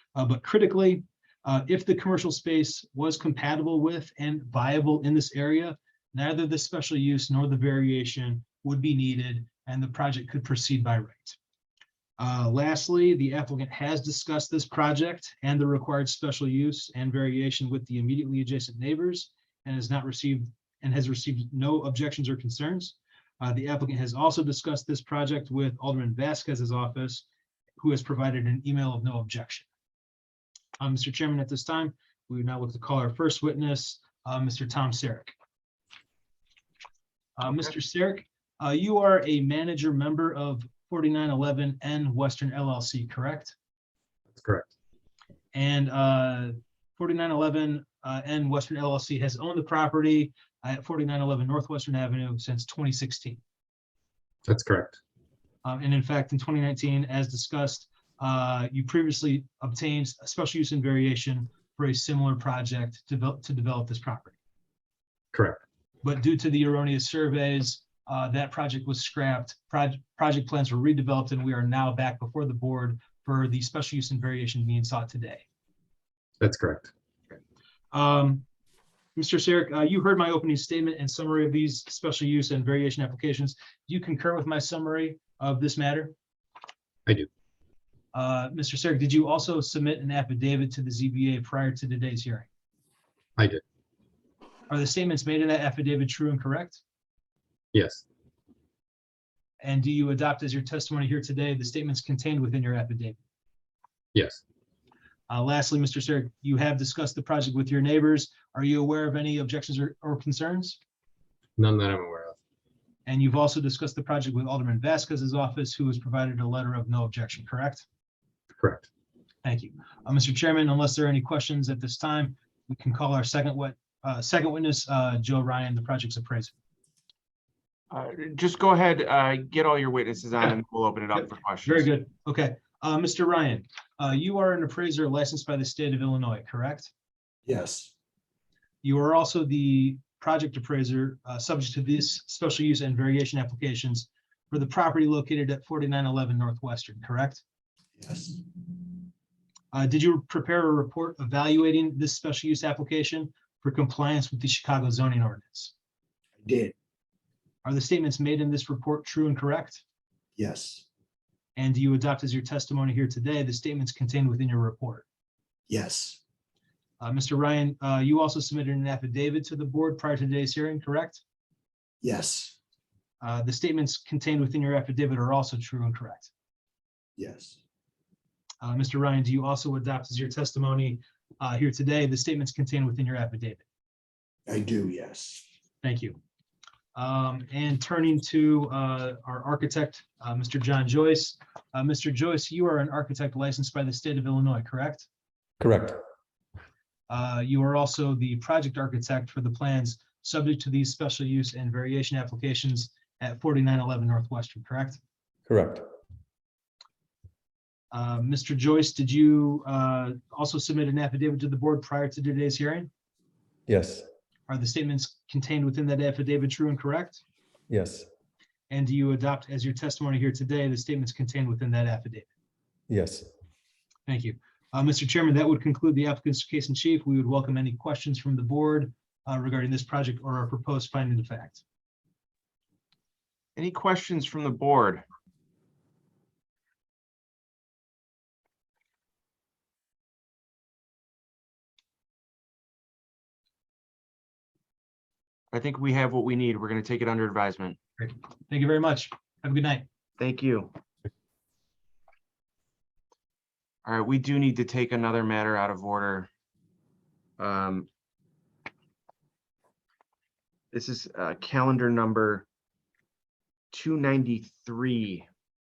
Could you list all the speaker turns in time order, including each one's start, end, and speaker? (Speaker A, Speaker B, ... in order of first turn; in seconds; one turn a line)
Speaker A: 0.1-11.4
Speaker A: 12.2-27.2
Speaker A: 27.8-29.7
Speaker A: 30.8-35.3
Speaker A: 37.4-43.5
Speaker B: 44.3-44.7
Speaker A: 45.5-53.4
Speaker B: 54.5-55.0
Speaker A: 55.6-64.4
Speaker B: 65.3-65.6
Speaker A: 66.0-75.4
Speaker B: 76.4-76.9
Speaker A: 77.9-78.4
Speaker A: 79.2-86.1
Speaker A: 88.1-92.5
Speaker A: 94.7-96.8
Speaker B: 97.7-98.0
Speaker A: 99.6-103.2
Speaker B: 104.1-104.4
Speaker A: 105.3-110.8
Speaker B: 111.6-112.3
Speaker A: 113.0-117.8
Speaker B: 118.6-118.9
Speaker A: 119.4-126.5
Speaker C: 127.9-131.9
Speaker A: 131.7-136.9
Speaker D: 137.5-137.9
Speaker A: 138.8-147.4
Speaker D: 148.0-148.4
Speaker A: 149.7-155.7
Speaker D: 156.4-156.7
Speaker A: 157.6-159.8
Speaker D: 160.4-160.8
Speaker A: 161.6-165.1
Speaker D: 165.7-166.2
Speaker A: 167.0-171.2
Speaker D: 172.0-172.6
Speaker A: 173.2-176.3
Speaker D: 177.2-177.6
Speaker A: 178.6-183.6
Speaker D: 184.5-185.4
Speaker A: 185.8-186.2
Speaker A: 186.9-195.1
Speaker E: 195.6-196.0
Speaker A: 197.1-205.0
Speaker E: 205.5-205.8
Speaker A: 207.9-212.9
Speaker E: 213.7-214.1
Speaker A: 214.5-217.2
Speaker E: 217.7-218.1
Speaker A: 218.7-222.3
Speaker E: 222.9-223.3
Speaker A: 224.1-231.6
Speaker C: 233.6-235.0
Speaker C: 245.5-247.8
Speaker A: 248.0-249.8
Speaker C: 250.2-250.7
Speaker C: 253.8-256.3
Speaker C: 257.4-257.9
Speaker C: 260.7-262.4
Speaker C: 263.7-265.3